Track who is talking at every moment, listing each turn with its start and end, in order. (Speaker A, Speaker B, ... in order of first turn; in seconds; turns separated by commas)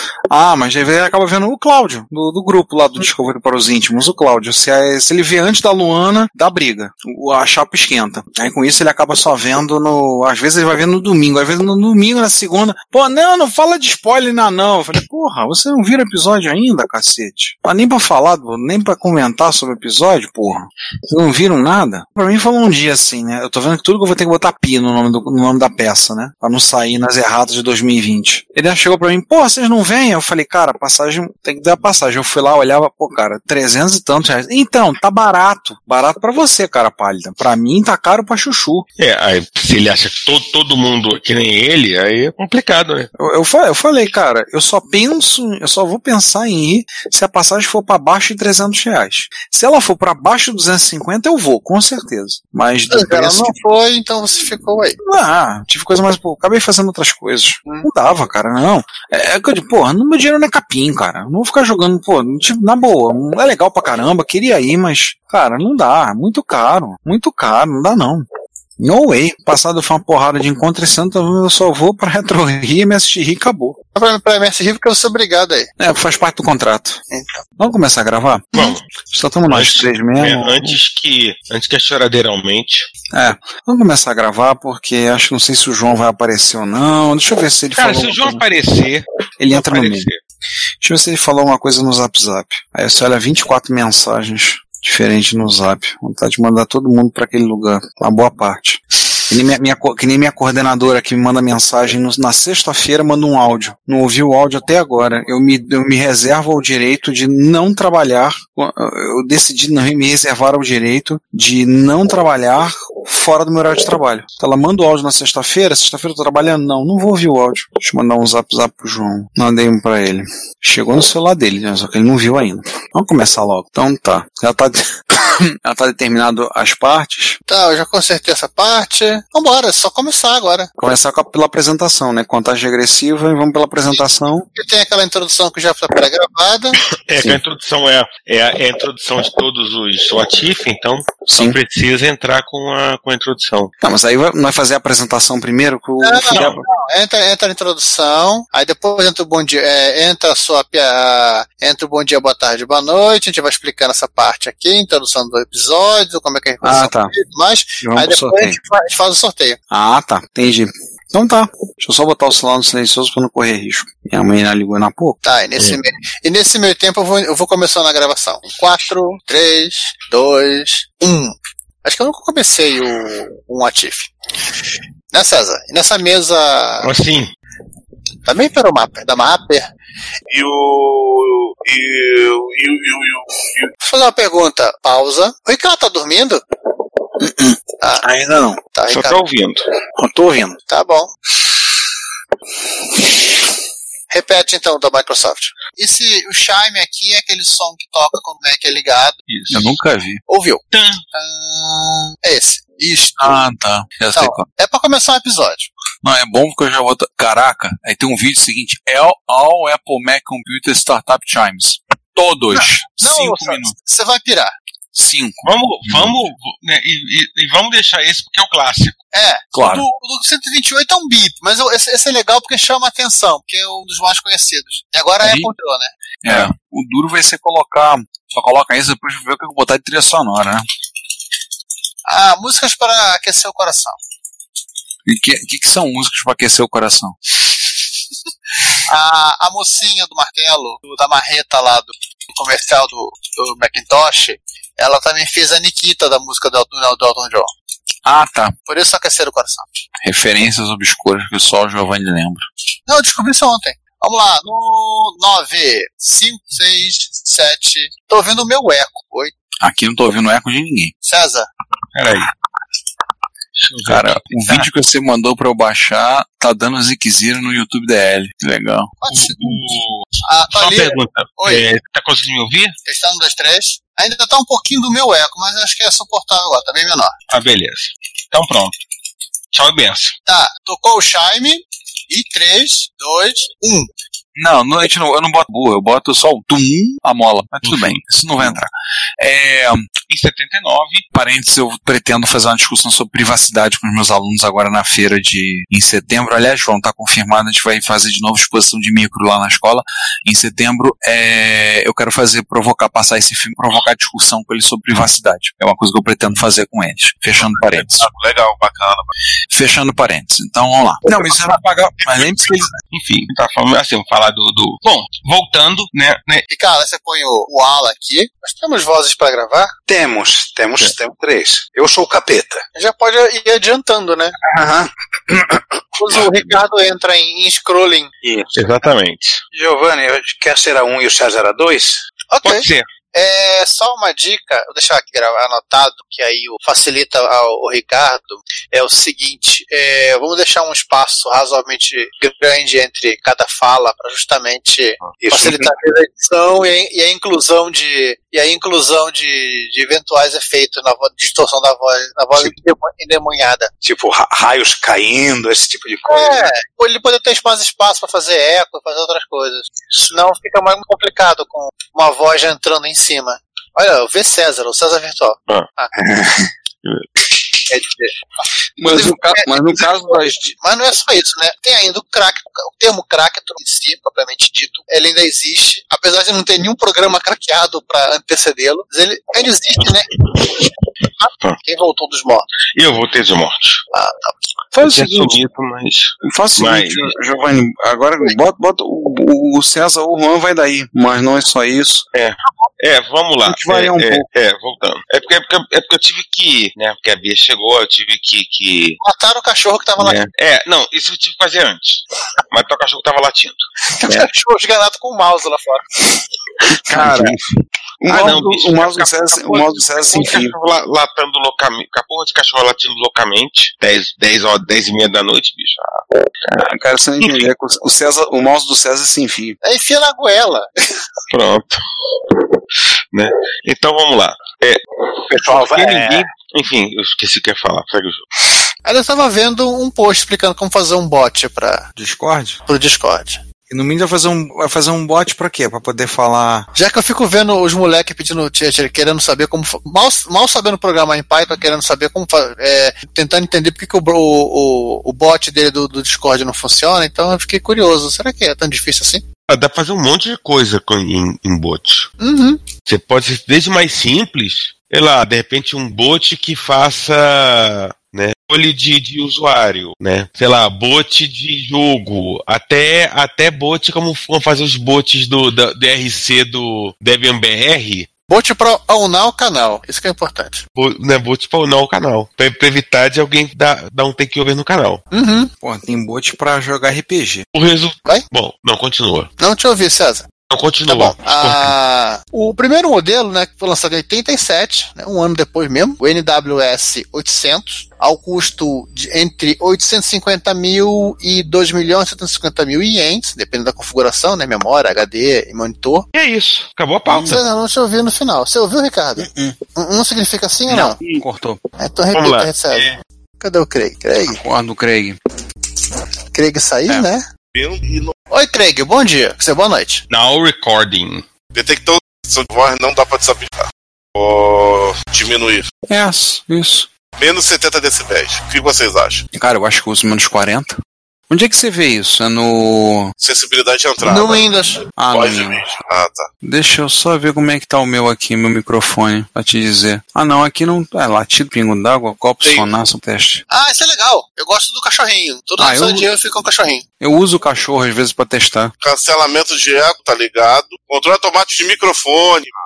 Speaker A: 0.3-38.9, Speaker B: 39.0-43.1, Speaker A: 43.2-53.5, Speaker C: 52.9-55.0, Speaker A: 55.0-68.2, Speaker A: 68.8-73.8, Speaker C: 73.9-75.7, Speaker A: 75.8-77.0, Speaker C: 77.1-77.4, Speaker A: 77.6-78.5, Speaker B: 78.5-78.8, Speaker A: 79.1-80.8, Speaker B: 79.5-82.9, Speaker A: 83.1-88.4, Speaker B: 87.8-90.2, Speaker A: 89.4-90.1, Speaker A: 90.8-127.4, Speaker C: 127.5-130.7, Speaker A: 130.8-134.5, Speaker C: 134.5-136.8, Speaker B: 136.9-143.7, Speaker A: 141.3-141.6, Speaker A: 143.8-146.6, Speaker C: 146.0-159.6, Speaker B: 146.3-146.6, Speaker A: 156.6-157.1, Speaker A: 157.8-158.6, Speaker A: 159.7-165.2, Speaker C: 165.2-174.1, Speaker C: 175.1-176.9, Speaker B: 176.8-177.3, Speaker C: 178.2-179.7, Speaker D: 180.3-183.7, Speaker C: 183.8-186.4, Speaker A: 187.2-188.6, Speaker C: 188.7-189.2, Speaker B: 188.9-189.6, Speaker A: 190.0-190.6, Speaker C: 190.7-191.1, Speaker C: 194.1-199.2, Speaker B: 199.3-199.7, Speaker A: 199.5-200.2, Speaker C: 200.3-203.4, Speaker B: 200.7-201.0, Speaker A: 203.2-204.4, Speaker C: 204.1-205.7, Speaker A: 206.0-213.7, Speaker C: 212.5-214.5, Speaker A: 214.9-216.2, Speaker B: 215.4-219.0, Speaker C: 219.1-225.9, Speaker A: 219.5-219.8, Speaker A: 225.2-225.5, Speaker A: 226.2-230.7, Speaker C: 232.1-234.0, Speaker A: 235.1-237.2, Speaker C: 238.8-247.5, Speaker A: 248.0-248.5, Speaker C: 248.7-249.7, Speaker A: 250.0-252.5, Speaker C: 252.9-259.3, Speaker A: 259.6-260.9, Speaker C: 261.0-261.5, Speaker B: 261.9-262.3, Speaker B: 263.6-264.7, Speaker A: 263.9-268.9, Speaker C: 269.0-269.7, Speaker B: 269.1-272.7, Speaker C: 270.2-271.6, Speaker C: 272.8-277.1, Speaker B: 277.3-278.7, Speaker B: 279.5-280.1, Speaker C: 280.2-283.9, Speaker A: 284.3-289.9, Speaker B: 287.6-288.6, Speaker B: 290.1-291.0, Speaker A: 291.1-308.1, Speaker D: 307.4-309.1, Speaker A: 309.5-312.7, Speaker B: 312.9-316.4, Speaker C: 316.5-319.7, Speaker E: 319.9-322.6, Speaker C: 322.8-324.4, Speaker E: 324.5-325.4, Speaker C: 326.0-328.1, Speaker E: 328.2-328.5, Speaker B: 328.5-329.4, Speaker E: 329.5-332.0, Speaker C: 332.3-353.7, Speaker B: 332.4-332.9, Speaker E: 345.2-345.6, Speaker E: 353.8-356.5, Speaker C: 356.1-365.9, Speaker C: 367.7-368.1, Speaker A: 368.8-370.5, Speaker C: 368.8-380.1, Speaker C: 381.2-382.4, Speaker B: 382.7-383.8, Speaker C: 383.9-384.3, Speaker A: 384.7-385.4, Speaker B: 384.8-387.1, Speaker A: 386.2-392.1, Speaker B: 392.1-399.0, Speaker A: 393.4-394.2, Speaker C: 399.0-400.2, Speaker B: 400.0-404.3, Speaker C: 404.0-405.8, Speaker A: 406.8-407.4, Speaker B: 406.9-407.4, Speaker A: 408.0-410.5, Speaker B: 408.1-416.5, Speaker A: 416.5-419.6, Speaker B: 417.2-417.4, Speaker C: 419.6-420.7, Speaker B: 421.3-421.8, Speaker B: 423.1-428.2, Speaker E: 425.4-425.9, Speaker C: 428.8-431.9, Speaker A: 431.9-432.6, Speaker C: 432.7-433.4, Speaker A: 433.7-436.7, Speaker C: 436.7-449.2, Speaker B: 449.5-452.1, Speaker C: 452.2-452.6, Speaker B: 452.9-468.1, Speaker C: 468.3-470.6, Speaker B: 470.8-475.0, Speaker C: 475.1-475.5, Speaker A: 475.6-477.4, Speaker B: 477.5-479.3, Speaker C: 479.4-480.3, Speaker B: 480.5-481.7, Speaker C: 480.9-496.1, Speaker B: 496.1-497.4, Speaker C: 497.1-501.0, Speaker A: 499.2-499.6, Speaker A: 500.7-501.6, Speaker C: 501.8-504.4, Speaker B: 502.1-502.9, Speaker A: 504.2-505.2, Speaker C: 506.3-507.3, Speaker D: 507.5-508.1, Speaker C: 508.3-510.0, Speaker B: 510.1-511.2, Speaker D: 511.5-515.6, Speaker A: 515.9-516.9, Speaker D: 517.2-519.2, Speaker A: 519.3-520.8, Speaker A: 521.3-523.1, Speaker D: 523.2-524.5, Speaker C: 524.0-524.8, Speaker A: 525.0-525.6, Speaker D: 525.1-526.3, Speaker A: 526.4-533.4, Speaker C: 533.5-536.8, Speaker A: 535.6-536.1, Speaker A: 537.0-538.7, Speaker D: 538.8-542.5